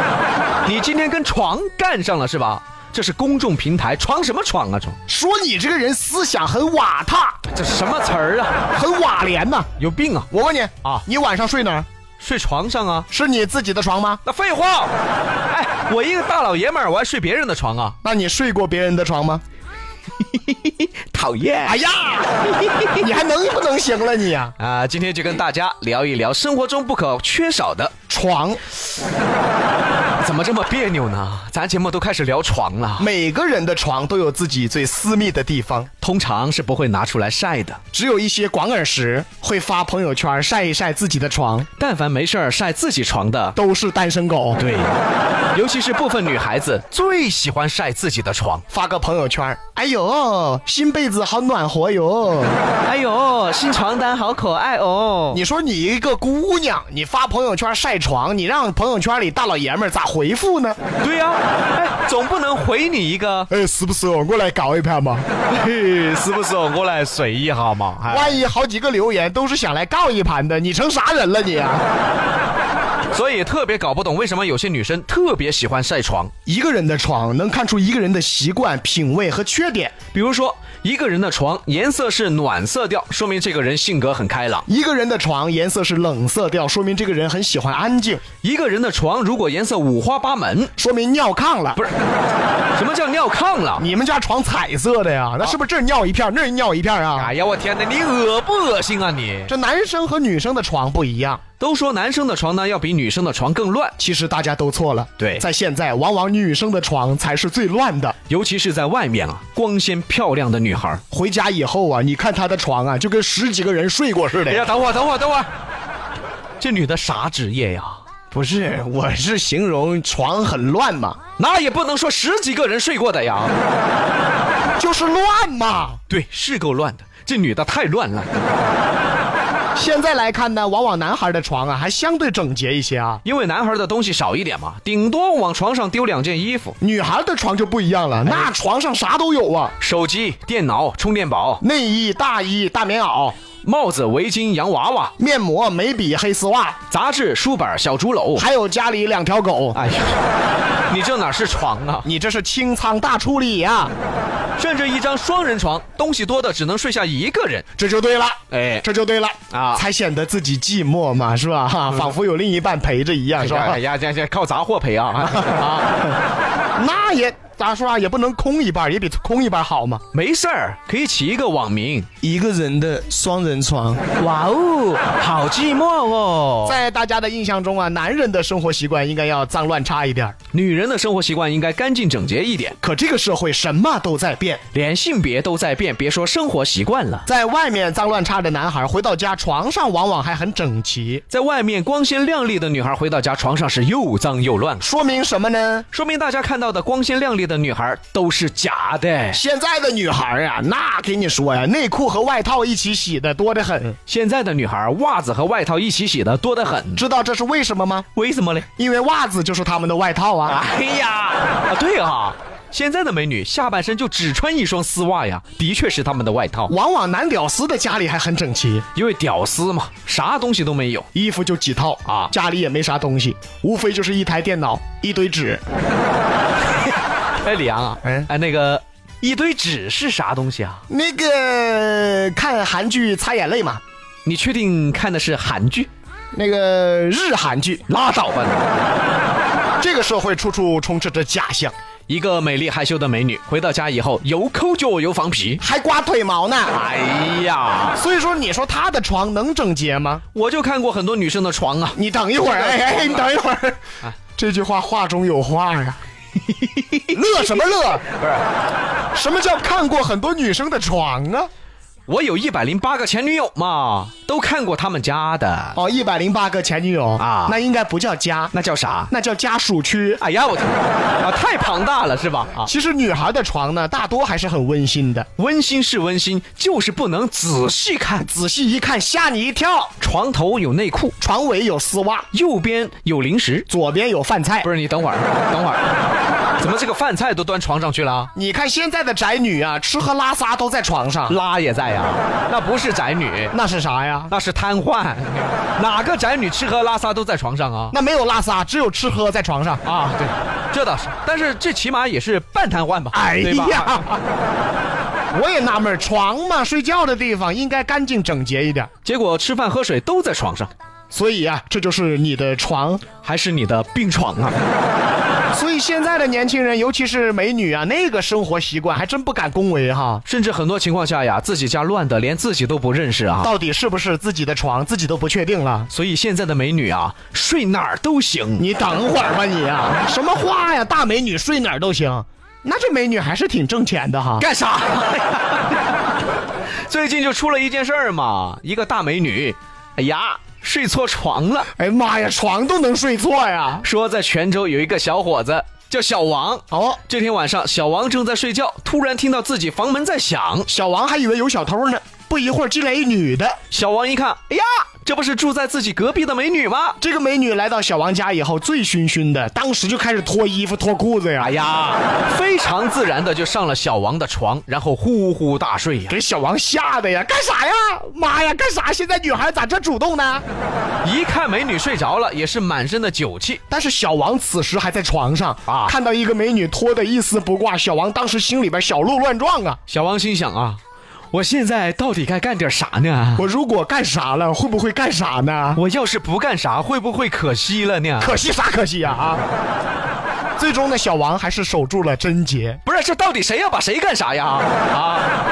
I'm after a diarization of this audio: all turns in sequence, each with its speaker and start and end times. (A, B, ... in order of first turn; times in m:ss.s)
0:00.6-0:05.0 A
0:05.1-0:07.4 B
0:07.5-0:08.6 A
0:08.7-0:09.7 B
0:09.8-0:10.3 A
0:10.3-0:11.9 B
0:12.2-0:13.1 A
0:13.1-0:14.2 B
0:14.2-0:14.9 A
0:15.5-0:18.0 A
0:18.0-0:19.4 B
0:20.2-0:21.8 A
0:21.6-0:24.5 B
0:22.6-0:23.0 A
0:24.6-0:27.9 A
0:28.1-0:28.6 B
0:30.2-0:33.1 A
0:33.0-0:35.9 B
0:36.0-0:37.8 A
0:37.9-0:41.7 B
0:41.8-0:43.6 A
0:43.6-0:44.6 B
0:44.6-0:45.0 A
0:45.5-0:48.6 A
0:48.7-0:52.6 B
0:52.8-0:55.4 A
0:55.3-1:00.8 B
1:01.0-1:03.5 A
1:03.5-1:05.2 B
1:05.5-1:08.4 A
1:08.1-1:11.8 B
1:13.1-1:16.3 A
1:16.4-1:19.9 B
1:20.1-1:24.6 A
1:24.7-1:28.2 B
1:28.4-1:30.7 A
1:30.8-1:31.8 B
1:32.7-1:33.8 A
1:33.8-1:37.3 B
1:37.2-1:39.5 A
1:39.5-1:41.4 B
1:41.6-1:43.9 A
1:44.0-1:48.2 B
1:45.2-1:45.4 A
1:48.3-1:51.0 A
1:51.1-1:54.7 B
1:54.5-1:55.5 A
1:56.6-1:58.0 A
1:58.3-2:01.2 B
2:01.4-2:03.5 A
2:04.8-2:06.0 B
2:06.1-2:08.7 A
2:09.7-2:13.2 B
2:13.2-2:16.8 A
2:16.8-2:19.7 B
2:19.8-2:21.6 A
2:21.6-2:23.4 B
2:23.6-2:25.1 A
2:25.2-2:26.8 B
2:26.9-2:28.4 A
2:28.4-2:29.8 B
2:29.7-2:30.2 A
2:30.9-2:32.1 A
2:32.0-2:33.9 B
2:34.6-2:37.6 A
2:37.8-2:43.8 B
2:38.5-2:38.8 A
2:39.5-2:39.8 A
2:43.4-2:45.9 A
2:45.2-2:46.0 B
2:46.7-2:50.0 B
2:50.1-2:52.1 A
2:52.2-2:54.0 B
2:54.2-2:56.8 A
2:56.6-3:00.3 B
3:00.5-3:02.8 A
3:02.8-3:04.6 B
3:04.7-3:07.2 A
3:07.2-3:11.2 B
3:11.3-3:14.9 A
3:14.8-3:15.9 B
3:15.9-3:19.4 A
3:19.3-3:24.0 B
3:24.1-3:27.0 A
3:26.9-3:28.0 B
3:28.1-3:28.7 A
3:28.8-3:30.6 B
3:30.5-3:36.7 A
3:36.7-3:38.8 B
3:38.9-3:41.1 A
3:41.1-3:45.6 B
3:42.0-3:42.3 A
3:47.4-3:50.8 A
3:48.0-3:48.3 B
3:50.9-3:53.8 B
3:54.2-3:55.9 A
3:56.3-3:57.8 B
3:57.9-3:58.8 A
3:59.8-4:01.7 B
4:02.1-4:05.6 A
4:05.6-4:06.7 B
4:06.7-4:08.0 A
4:08.0-4:10.2 B
4:10.3-4:13.3 A
4:12.0-4:13.8 B
4:14.4-4:16.0 B
4:16.4-4:18.4 A
4:17.1-4:18.0 B
4:19.1-4:21.5 B
4:22.1-4:25.8 A
4:25.7-4:28.5 B
4:27.2-4:27.6 A
4:28.5-4:29.1 A
4:29.1-4:30.2 B
4:30.2-4:32.7 A
4:32.6-4:35.3 B
4:35.4-4:38.3 A
4:38.2-4:39.9 B
4:40.0-4:41.1 A
4:41.2-4:42.3 B
4:42.3-4:43.7 A
4:43.7-4:44.7 B
4:44.6-4:45.8 A
4:46.6-4:48.3 A
4:48.3-4:51.4 B
4:51.3-4:53.5 A
4:53.5-4:54.3 B
4:54.3-4:57.9 A
4:57.9-4:59.8 B
4:59.8-5:04.1 A
5:03.1-5:04.2 B
5:05.3-5:08.9 B
5:09.0-5:10.7 A
5:11.1-5:13.0 B
5:13.2-5:14.6 A
5:15.5-5:20.2 B
5:20.2-5:23.5 A
5:23.4-5:25.9 B
5:25.9-5:28.6 A
5:28.6-5:34.5 B
5:34.4-5:35.8 A
5:36.7-5:41.7 A
5:41.7-5:43.8 B
5:43.8-5:50.7 A
5:46.7-5:47.0 B
5:50.7-5:53.6 B
5:53.7-5:57.0 A
5:57.0-6:01.6 B
6:01.4-6:06.2 A
6:06.1-6:10.4 B
6:11.0-6:13.6 A
6:13.7-6:19.8 B
6:15.6-6:15.9 A
6:19.9-6:20.8 A
6:21.3-6:23.5 A
6:23.4-6:25.8 B
6:25.8-6:28.4 A
6:28.2-6:29.4 B
6:30.6-6:32.8 B
6:32.8-6:35.3 A